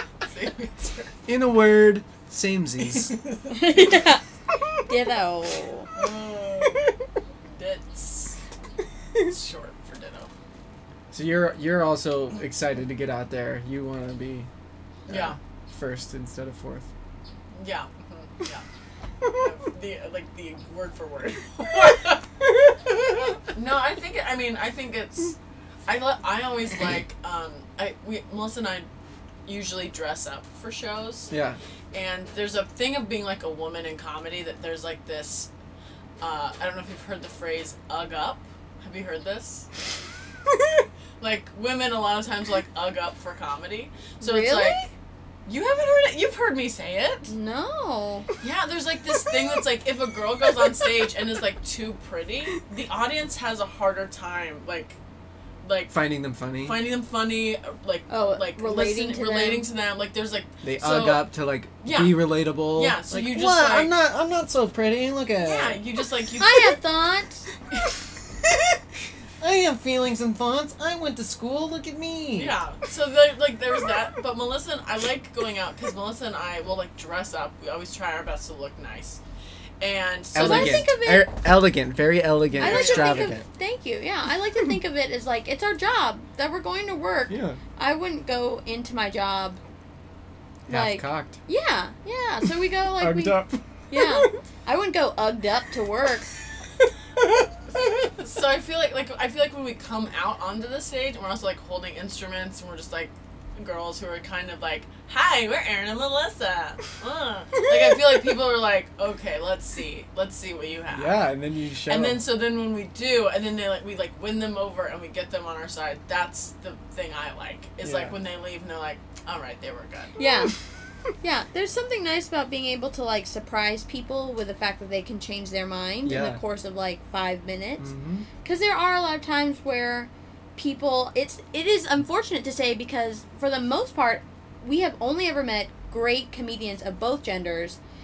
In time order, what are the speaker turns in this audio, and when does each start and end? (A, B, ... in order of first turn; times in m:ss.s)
0:00.2-0:01.1 A
0:01.3-0:03.1 B
0:03.5-0:04.2 C
0:04.9-0:05.9 C
0:05.9-0:06.8 A
0:07.6-0:08.4 A
0:09.2-0:10.3 A
0:11.1-0:14.5 B
0:15.1-0:15.4 A
0:15.1-0:16.8 B
0:17.5-0:18.6 A
0:19.3-0:22.2 A
0:23.4-0:25.4 A
0:25.9-0:28.9 A
0:29.4-0:31.3 A
0:31.3-0:31.6 B
0:31.9-0:35.5 A
0:36.2-0:39.7 A
0:41.2-0:44.8 A
0:44.2-0:44.9 C
0:45.4-0:47.3 A
0:47.3-0:48.3 C
0:48.4-0:55.0 A
0:55.6-0:55.9 A
0:55.9-0:56.8 B
0:56.6-1:03.9 A
0:58.1-0:59.7 C
1:00.6-1:05.8 B
1:05.4-1:06.7 A
1:06.4-1:07.4 C
1:09.4-1:12.6 B
1:12.4-1:19.2 A
1:19.8-1:20.9 A
1:20.3-1:23.4 B
1:20.4-1:21.3 C
1:22.6-1:23.3 A
1:22.6-1:29.6 C
1:27.3-1:27.6 B
1:30.7-1:31.4 B
1:30.7-1:36.3 C
1:33.0-1:33.6 B
1:38.2-1:51.2 A
1:50.9-1:52.2 B
1:51.9-2:00.2 A
1:57.8-1:58.1 B
2:00.2-2:00.5 C
2:01.2-2:07.9 C
2:06.0-2:06.4 B
2:07.8-2:08.3 B
2:08.4-2:17.8 C